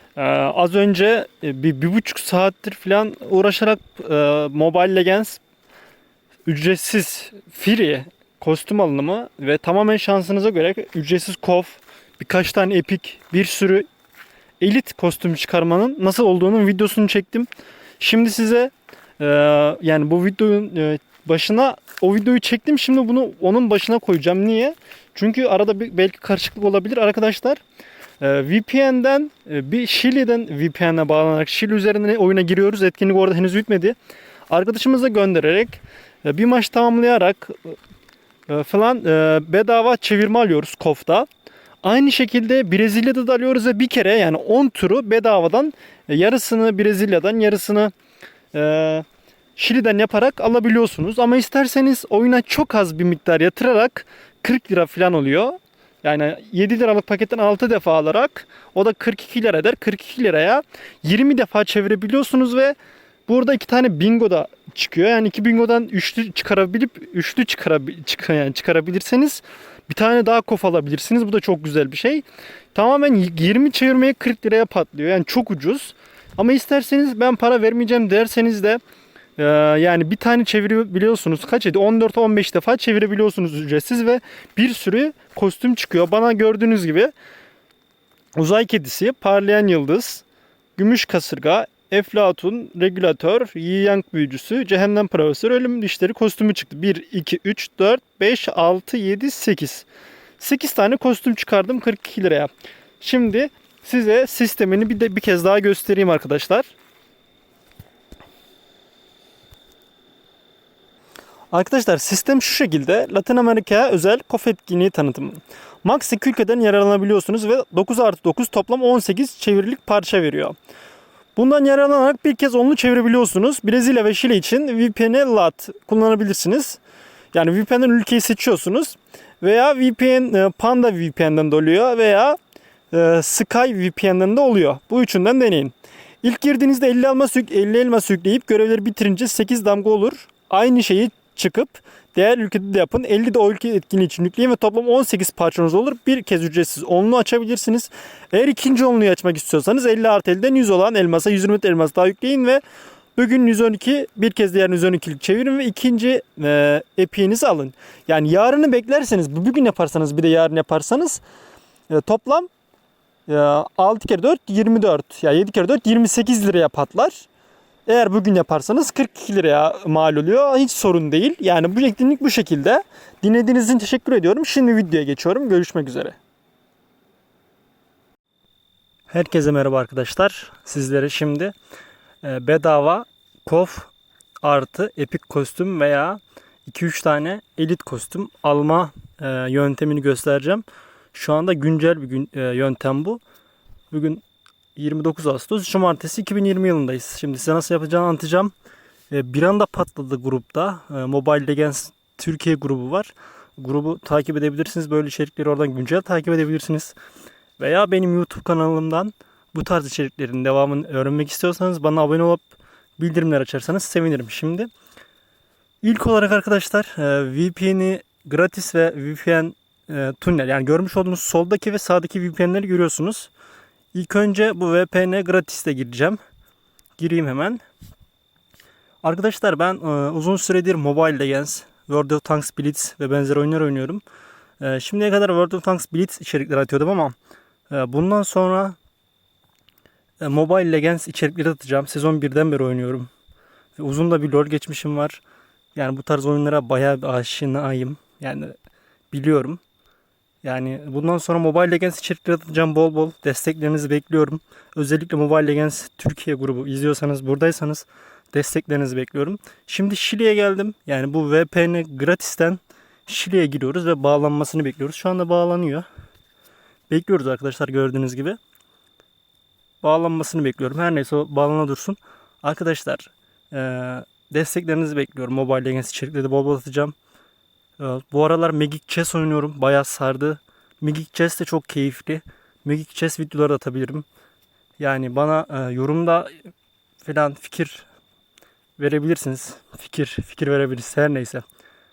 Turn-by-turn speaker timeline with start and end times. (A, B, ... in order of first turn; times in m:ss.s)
0:00.2-0:05.4 A
0:06.4-0:13.8 A
0:14.6-0:27.6 A
0:28.2-0:34.0 A
0:34.5-0:37.8 A
0:38.5-0:41.3 A
0:41.8-0:47.9 A
0:48.5-0:49.0 A
0:49.6-1:02.8 A
1:03.3-1:18.8 A
1:19.4-1:27.1 A
1:28.4-1:30.2 A
1:30.8-1:39.9 A
1:40.4-1:46.7 A
1:51.5-2:00.5 A
2:01.4-2:06.8 A
2:07.3-2:12.4 A
2:12.9-2:32.6 A
2:33.2-2:41.2 A
2:41.9-2:42.5 A
2:43.3-2:47.3 A
2:47.9-2:56.2 A
2:59.1-3:01.5 A
3:02.2-3:03.9 A
3:04.4-3:13.2 A
3:13.9-3:14.2 A
3:14.8-3:18.5 A
3:19.1-3:26.9 A
3:27.6-3:34.7 A
3:35.8-3:43.3 A
3:43.9-3:46.2 A
3:47.0-3:47.6 A
3:49.0-3:54.0 A
3:54.6-3:57.2 A
3:57.7-3:58.8 A
4:00.2-4:03.1 A
4:03.8-4:05.2 A
4:05.7-4:08.5 A
4:09.1-4:09.6 A
4:10.4-4:25.9 A
4:26.9-4:28.4 A
4:29.8-4:36.9 A
4:37.8-4:44.1 A
4:44.8-4:46.4 A
4:47.0-4:47.9 A
4:48.8-4:51.4 A